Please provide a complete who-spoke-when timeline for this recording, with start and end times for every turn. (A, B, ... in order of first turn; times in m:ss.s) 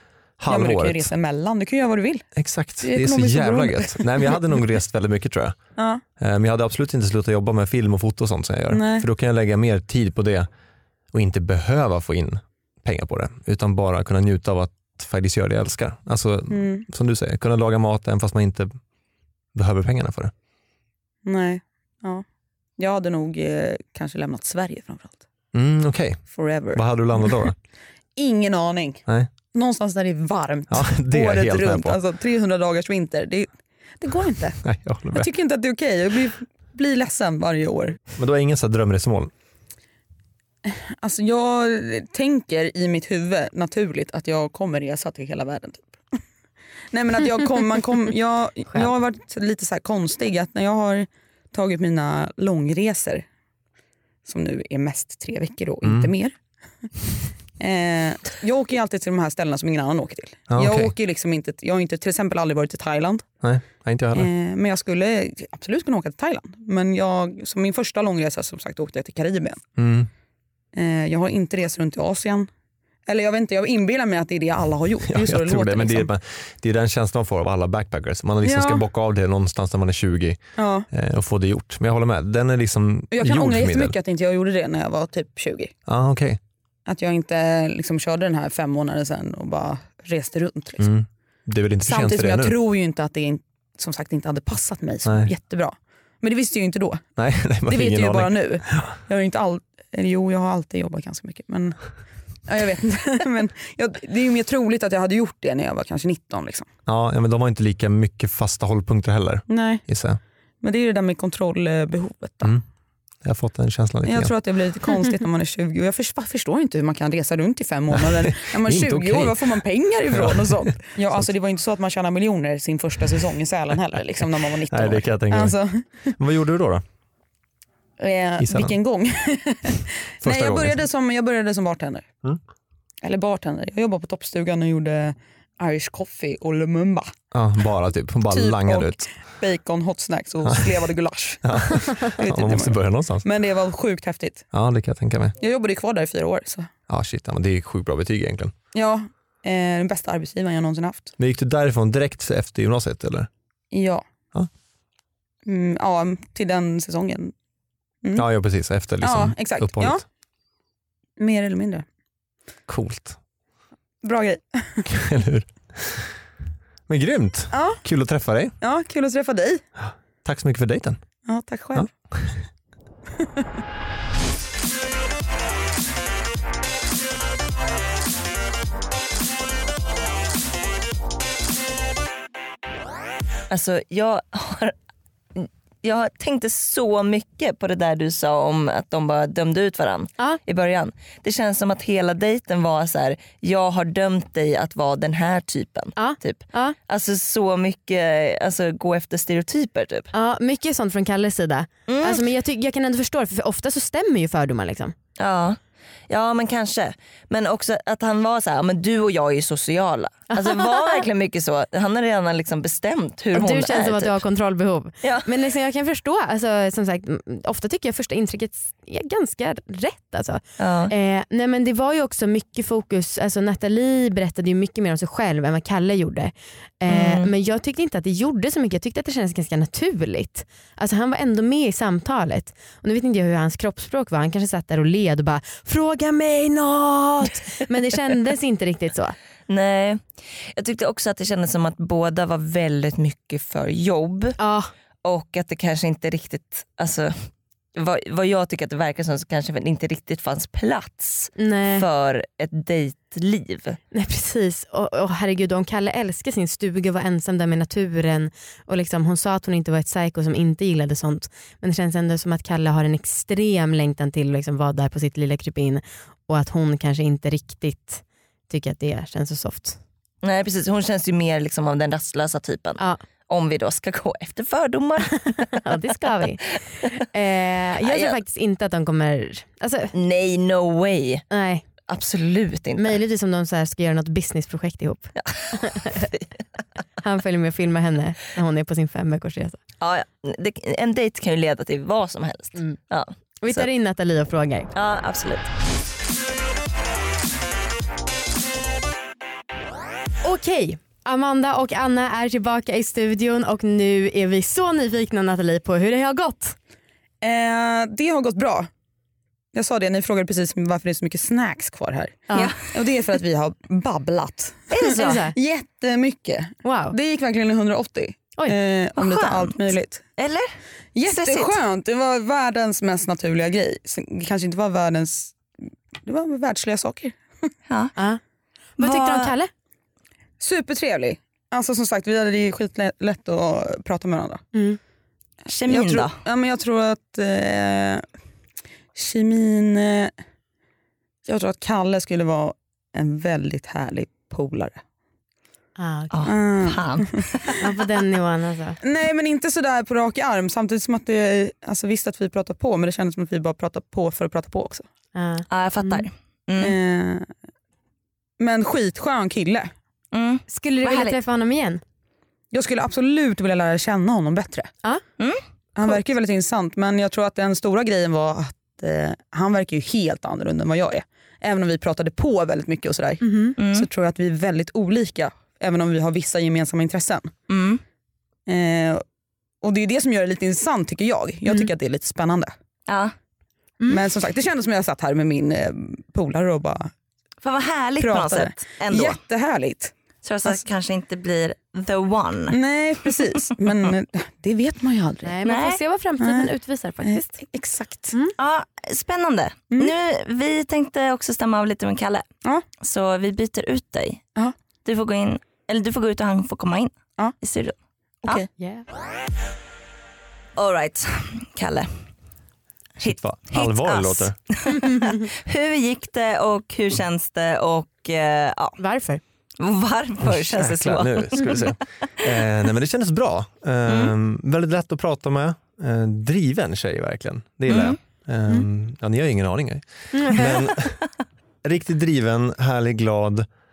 0:00.4-0:01.1 A
0:00.5-0:02.3 B
0:02.4-0:05.6 A
0:02.8-0:04.4 B
0:06.2-0:10.5 A
0:08.7-0:09.0 B
0:11.1-0:18.7 A
0:16.5-0:16.9 B
0:19.5-0:20.3 A
0:21.2-0:22.2 B
0:22.8-0:25.2 B
0:25.5-0:27.6 A
0:26.3-0:27.3 B
0:28.2-0:34.6 B
0:30.7-0:32.0 A
0:34.6-0:35.3 A
0:35.1-0:38.0 B
0:38.2-0:39.3 A
0:40.6-0:45.9 B
0:46.9-0:53.2 B
0:54.2-0:56.3 B
0:55.8-0:56.1 A
0:57.6-1:03.2 B
1:00.5-1:00.9 A
1:03.4-1:04.3 A
1:04.1-1:09.6 B
1:09.8-1:10.1 A
1:10.7-1:12.5 B
1:13.0-1:16.1 B
1:15.1-1:24.0 A
1:18.4-1:18.8 B
1:20.6-1:20.9 B
1:23.1-1:25.7 B
1:25.9-1:26.4 A
1:26.9-1:30.9 B
1:30.8-1:32.6 A
1:31.8-1:37.1 B
1:35.0-1:35.3 A
1:37.2-1:38.9 A
1:37.7-1:41.8 B
1:42.4-1:46.7 B
1:46.9-1:50.2 A
1:49.5-1:49.8 B
1:50.6-1:52.5 B
1:53.2-1:54.3 A
1:54.0-2:06.1 B
1:58.0-1:59.4 A
2:00.1-2:01.3 A
2:04.7-2:05.6 A
2:06.2-2:06.8 A
2:08.0-2:12.1 B
2:08.4-2:08.8 A
2:10.2-2:10.8 A
2:13.0-2:17.1 B
2:17.3-2:19.1 A
2:18.3-2:24.4 B
2:21.4-2:23.2 A
2:24.5-2:25.4 A
2:25.4-2:26.7 B
2:26.9-2:28.5 A
2:28.7-2:31.1 B
2:31.2-2:33.3 A
2:33.7-2:34.0 B
2:35.4-2:37.3 B
2:38.1-2:40.0 A
2:39.0-2:40.0 B
2:41.2-2:41.8 B
2:42.7-2:43.2 A
2:44.0-2:44.9 B
2:44.9-2:46.1 A
2:46.9-2:48.5 A
2:47.5-2:47.8 B
2:48.6-2:49.6 B
2:49.8-2:51.0 A
2:51.2-2:51.9 B
2:51.7-2:52.3 A
2:53.2-2:53.4 B
3:03.5-3:04.7 C
3:05.4-3:20.1 C
3:16.0-3:16.7 D
3:20.1-3:24.9 D
3:21.9-3:22.2 C
3:25.2-3:34.2 C
3:30.3-3:31.0 D
3:33.3-3:59.1 D
3:35.0-3:35.3 C
3:40.6-3:40.9 C
3:46.9-3:47.3 C
3:59.5-4:04.4 C
4:04.4-4:04.7 D
4:05.0-4:07.1 C
4:07.7-4:13.8 C
4:11.4-4:11.8 D
4:13.9-4:29.8 D
4:30.2-4:35.6 C
4:35.6-4:36.4 D
4:36.4-4:36.9 C
4:37.0-4:39.9 D
4:37.8-4:38.2 C
4:39.9-4:41.2 C
4:41.3-4:41.6 D
4:41.9-4:42.9 C
4:42.8-4:46.0 D
4:45.1-4:46.3 C
4:47.0-4:49.6 D
4:49.8-4:53.7 C
4:53.4-4:54.7 D
4:54.7-4:55.5 C
5:00.2-5:06.6 D
5:07.2-5:08.7 B
5:09.5-5:20.0 B
5:14.7-5:15.2 C
5:14.9-5:15.3 D
5:16.6-5:16.9 D
5:19.0-5:20.5 C
5:20.9-5:25.4 B
5:21.0-5:21.6 C
5:26.0-5:27.5 B
5:27.7-5:27.9 C
5:28.8-5:29.3 C
5:28.8-5:29.5 D
5:30.4-5:34.4 B
5:34.5-5:34.8 D
5:35.5-5:36.2 C
5:35.7-5:38.0 B
5:38.9-5:40.1 B
5:41.2-5:44.8 B
5:45.8-5:46.3 D
5:46.1-5:47.5 C
5:46.3-5:47.2 B
5:47.6-5:48.8 D
5:48.8-5:54.8 B
5:55.1-5:56.0 D
5:55.5-5:56.8 C
5:56.6-5:57.3 B
5:58.4-5:59.7 B
6:00.1-6:01.2 C
6:00.5-6:01.8 D
6:02.5-6:04.7 B
6:05.8-6:17.3 B
6:13.2-6:13.6 D
6:13.6-6:13.9 C
6:17.5-6:17.8 C
6:18.5-6:19.0 B
6:19.6-6:22.5 B
6:22.9-6:23.1 C
6:23.9-6:26.9 B
6:27.4-6:29.2 C
6:28.0-6:29.9 B
6:30.2-6:32.6 C
6:32.5-6:35.3 B
6:35.2-6:37.4 D
6:35.4-6:35.8 C
6:36.2-6:36.5 B
6:37.0-6:38.1 B
6:38.3-6:42.2 C
6:42.8-6:44.2 C
6:44.8-6:48.5 C
6:48.6-6:48.9 D
6:50.6-6:52.1 C
6:53.0-6:54.4 A
6:53.0-6:58.8 C
6:54.9-6:55.2 D
6:58.8-6:59.2 D
6:59.6-7:01.7 C
7:00.2-7:11.0 A
7:03.9-7:04.1 C
7:07.7-7:08.0 C
7:10.1-7:10.5 D
7:11.6-7:13.5 A